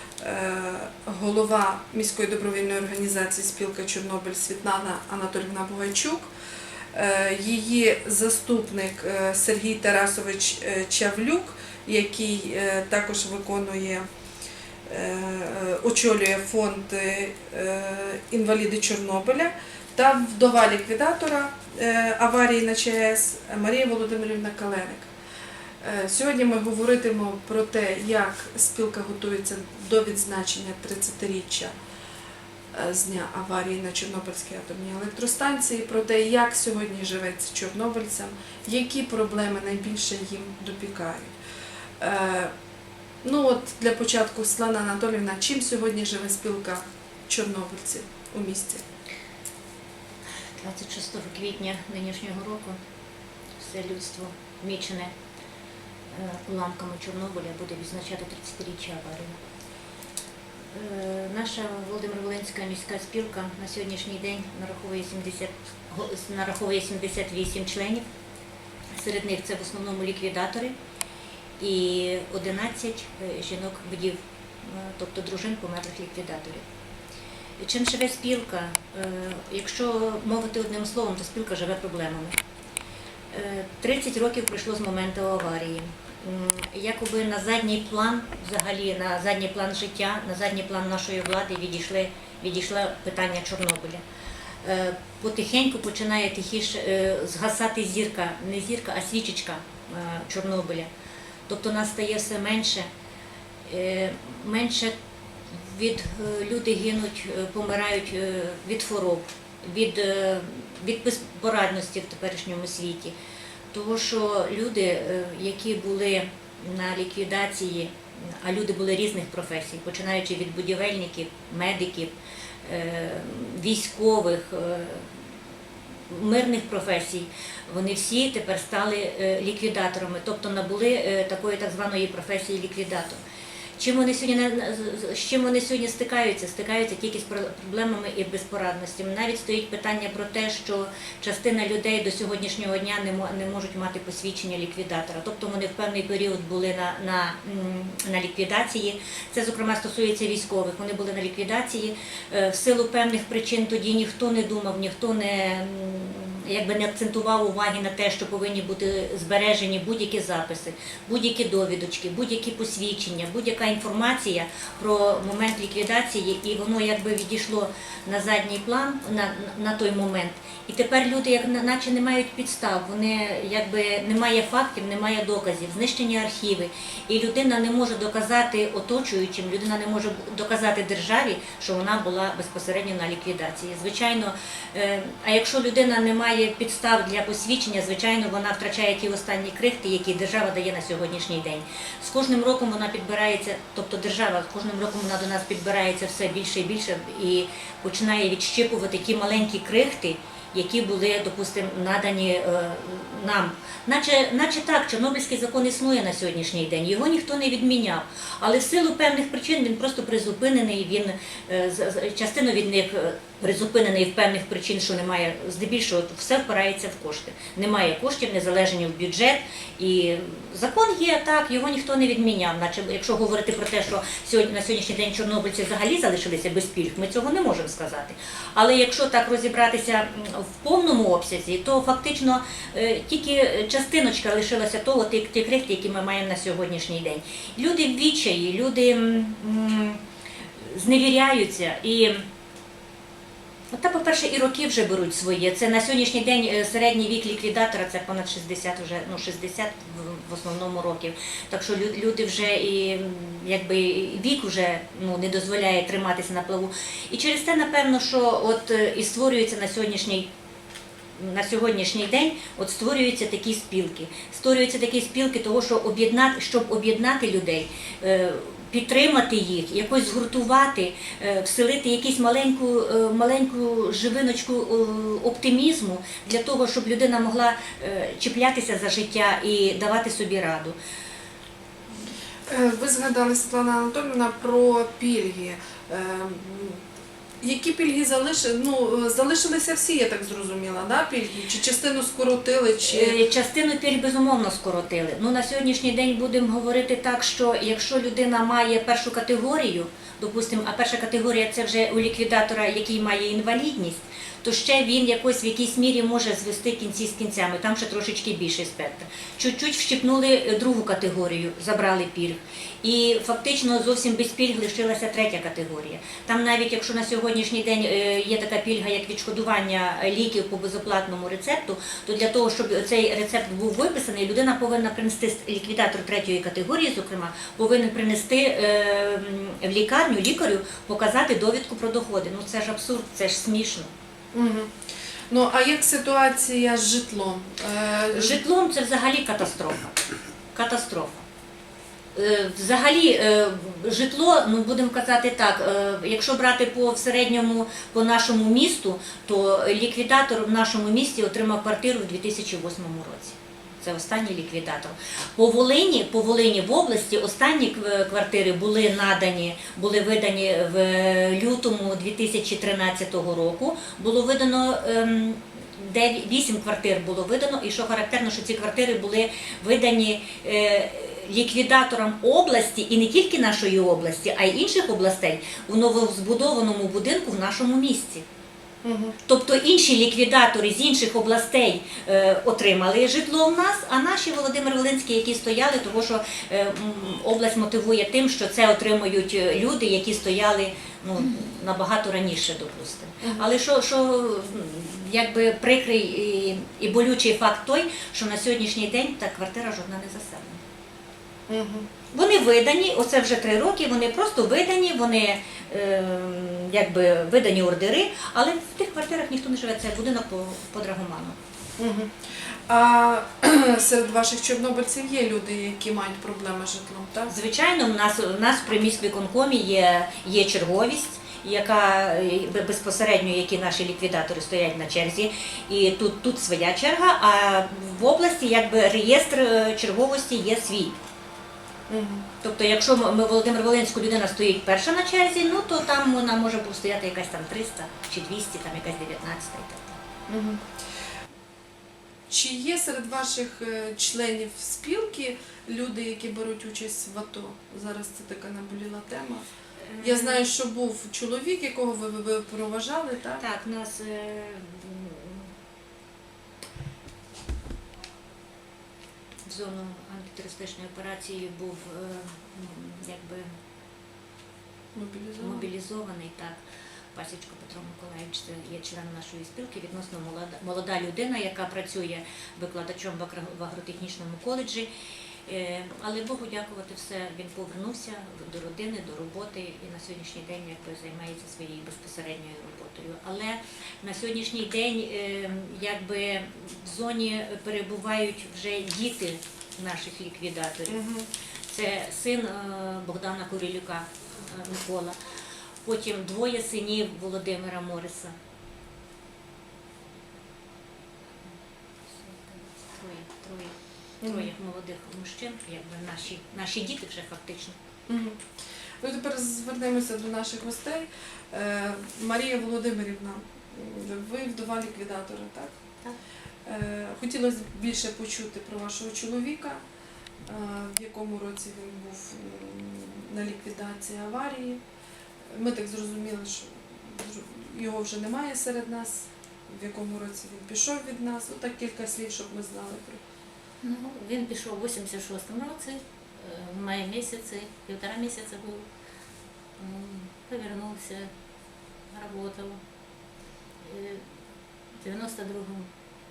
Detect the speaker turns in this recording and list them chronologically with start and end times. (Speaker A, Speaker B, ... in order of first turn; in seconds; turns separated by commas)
Speaker A: 0.2-6.3, Speaker A: 6.9-14.1, Speaker A: 14.9-25.1, Speaker A: 25.8-31.7, Speaker A: 32.7-41.4, Speaker A: 42.0-42.5, Speaker A: 43.2-48.8, Speaker B: 50.6-52.8, Speaker B: 53.6-55.1, Speaker B: 56.1-59.4, Speaker B: 60.7-68.0, Speaker B: 68.9-70.8, Speaker B: 71.6-76.7, Speaker B: 77.6-82.4, Speaker B: 83.3-94.0, Speaker B: 94.6-100.9, Speaker B: 101.5-102.9, Speaker B: 103.7-105.0, Speaker B: 105.5-113.2, Speaker B: 113.7-125.3, Speaker B: 126.1-133.2, Speaker B: 133.8-240.0, Speaker B: 240.6-242.2, Speaker B: 243.7-260.3, Speaker B: 261.2-280.8, Speaker A: 282.5-286.8, Speaker A: 287.4-293.2, Speaker B: 292.8-333.9, Speaker A: 334.3-338.4, Speaker B: 338.1-339.8, Speaker B: 340.5-341.2, Speaker B: 342.1-378.2, Speaker A: 378.8-379.1, Speaker B: 379.3-400.6, Speaker A: 393.2-393.5, Speaker A: 401.5-401.9, Speaker B: 402.1-411.4, Speaker A: 411.8-417.3, Speaker B: 417.3-431.0, Speaker A: 431.9-432.3, Speaker B: 432.4-440.0, Speaker A: 440.3-440.6, Speaker A: 442.3-449.5, Speaker B: 449.8-450.5, Speaker A: 450.0-453.4, Speaker B: 453.4-455.5, Speaker B: 459.5-463.5, Speaker A: 464.9-465.7, Speaker B: 465.4-466.6, Speaker B: 467.1-474.9, Speaker B: 475.5-491.0, Speaker A: 490.9-491.3, Speaker B: 491.7-495.1, Speaker B: 495.8-498.4, Speaker B: 502.1-507.8, Speaker A: 504.2-504.5, Speaker A: 508.1-508.5, Speaker A: 509.0-515.7, Speaker A: 516.6-519.8, Speaker A: 520.5-524.8, Speaker A: 525.5-533.2, Speaker C: 533.8-538.9, Speaker C: 539.8-545.9